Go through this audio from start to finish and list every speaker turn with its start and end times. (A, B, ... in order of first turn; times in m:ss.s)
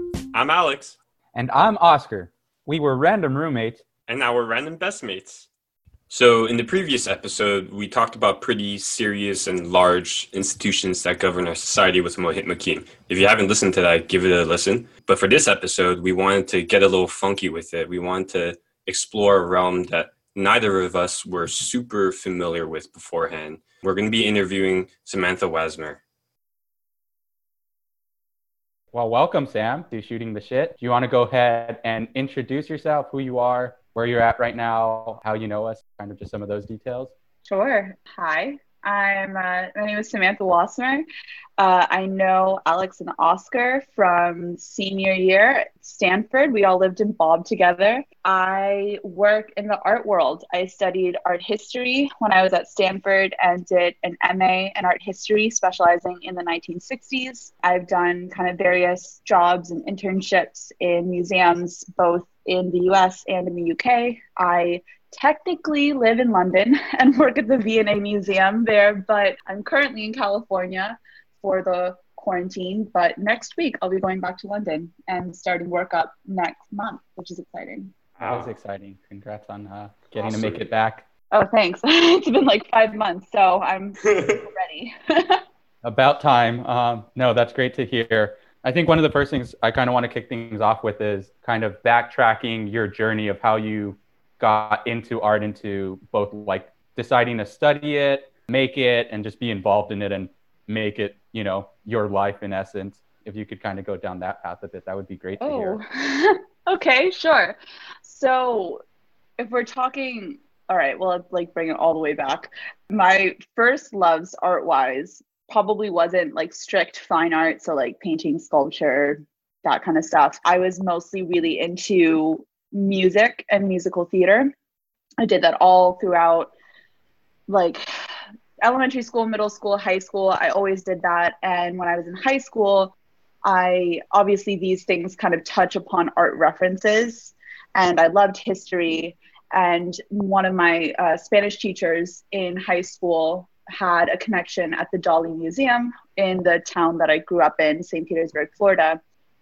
0:00.3-0:01.0 A
0:01.3-0:03.8 B
0:04.1-0:05.5 A
0:06.1-0:26.0 A
0:28.9-0:37.1 B
0:37.4-0:41.0 C
0:41.6-1:17.9 C
1:18.2-1:18.5 A
1:18.2-1:21.1 B
1:20.2-1:20.6 A
1:21.3-1:25.4 C
1:24.0-1:24.4 A
1:25.8-1:45.8 B
1:45.4-1:48.8 C
1:49.4-2:04.5 C
2:05.2-2:06.5 C
2:07.5-2:07.8 C
2:08.6-2:12.9 C
2:13.4-2:29.0 C